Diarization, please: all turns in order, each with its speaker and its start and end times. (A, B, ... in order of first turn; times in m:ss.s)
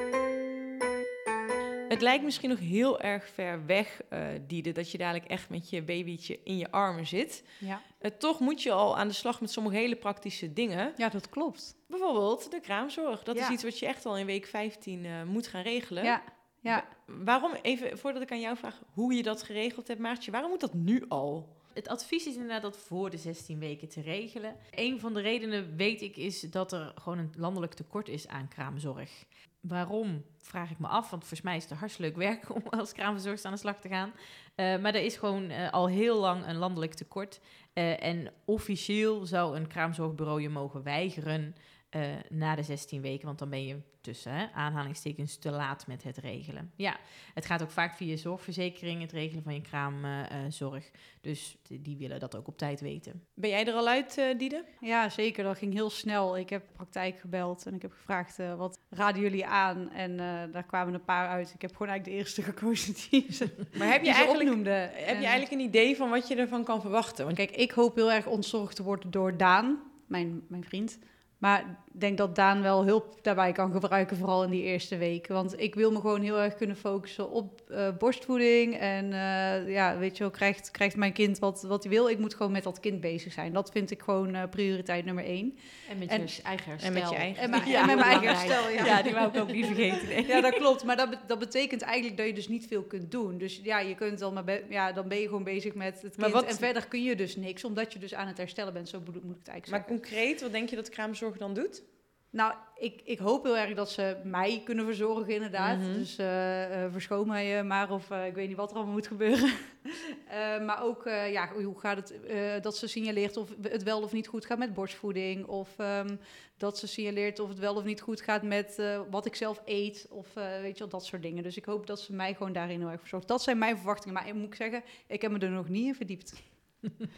0:01.9-0:11.0 A
0:07.6-0:07.8 B
0:11.0-0:11.8 B
0:11.9-0:21.6 A
0:13.3-0:13.6 B
0:16.0-0:16.9 B
0:21.7-0:53.2 C
0:53.4-0:54.7 A
0:54.8-1:05.4 B
1:03.8-1:07.4 A
1:07.4-1:26.4 B
1:25.9-1:28.9 D
1:26.8-1:29.1 A
1:27.4-1:29.1 B
1:27.5-1:30.8 C
1:30.3-1:40.0 B
1:36.2-1:36.7 A
1:39.7-1:41.9 A
1:42.3-2:06.6 B
1:45.6-1:46.1 A